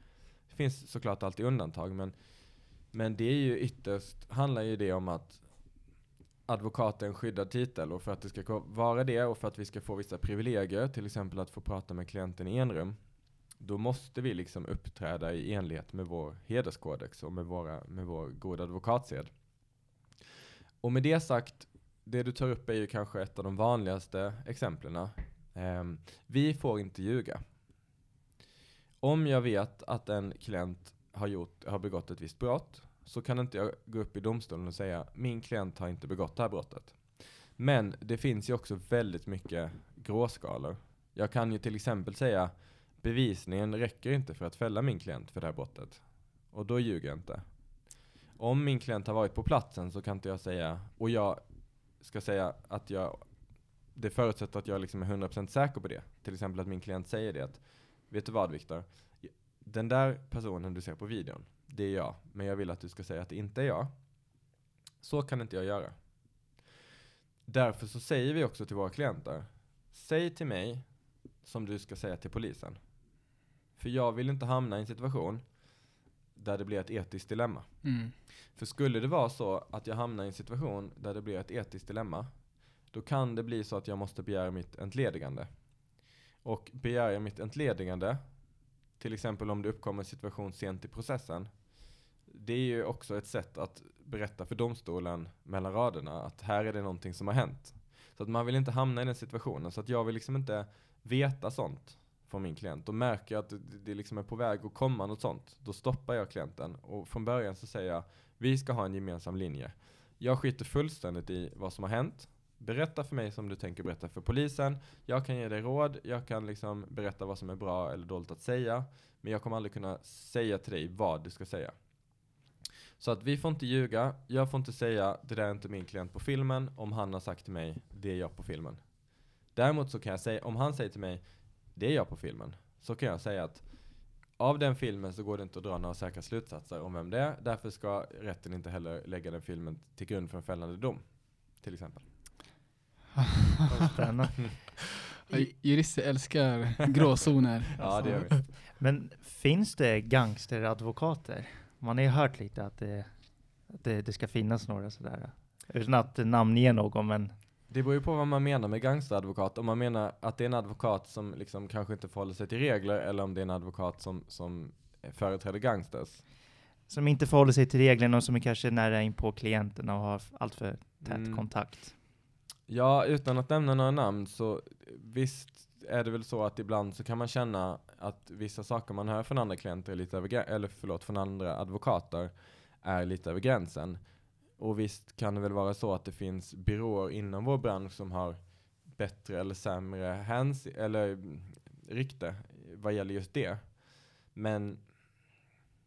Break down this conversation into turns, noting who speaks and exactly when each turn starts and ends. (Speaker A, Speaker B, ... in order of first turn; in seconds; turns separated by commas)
Speaker A: 0.5-5.4, Speaker A: 6.5-13.0, Speaker A: 13.6-19.3, Speaker A: 20.8-27.4, Speaker A: 29.0-47.6, Speaker A: 48.3-51.4, Speaker A: 52.0-53.3, Speaker A: 53.9-63.9, Speaker A: 65.0-65.9, Speaker A: 67.5-70.8, Speaker A: 71.4-72.8, Speaker A: 73.8-75.5, Speaker A: 76.3-77.7, Speaker B: 77.8-78.1, Speaker A: 78.5-82.3, Speaker A: 82.9-85.5, Speaker A: 86.4-88.3, Speaker A: 89.0-91.6, Speaker A: 92.3-121.7, Speaker A: 123.0-128.8, Speaker A: 129.5-142.1, Speaker C: 143.7-144.8, Speaker B: 145.3-148.4, Speaker A: 147.8-148.4, Speaker C: 147.8-157.3, Speaker A: 157.7-166.2, Speaker C: 166.9-171.9, Speaker A: 171.0-171.9, Speaker A: 172.7-184.0, Speaker A: 184.5-195.2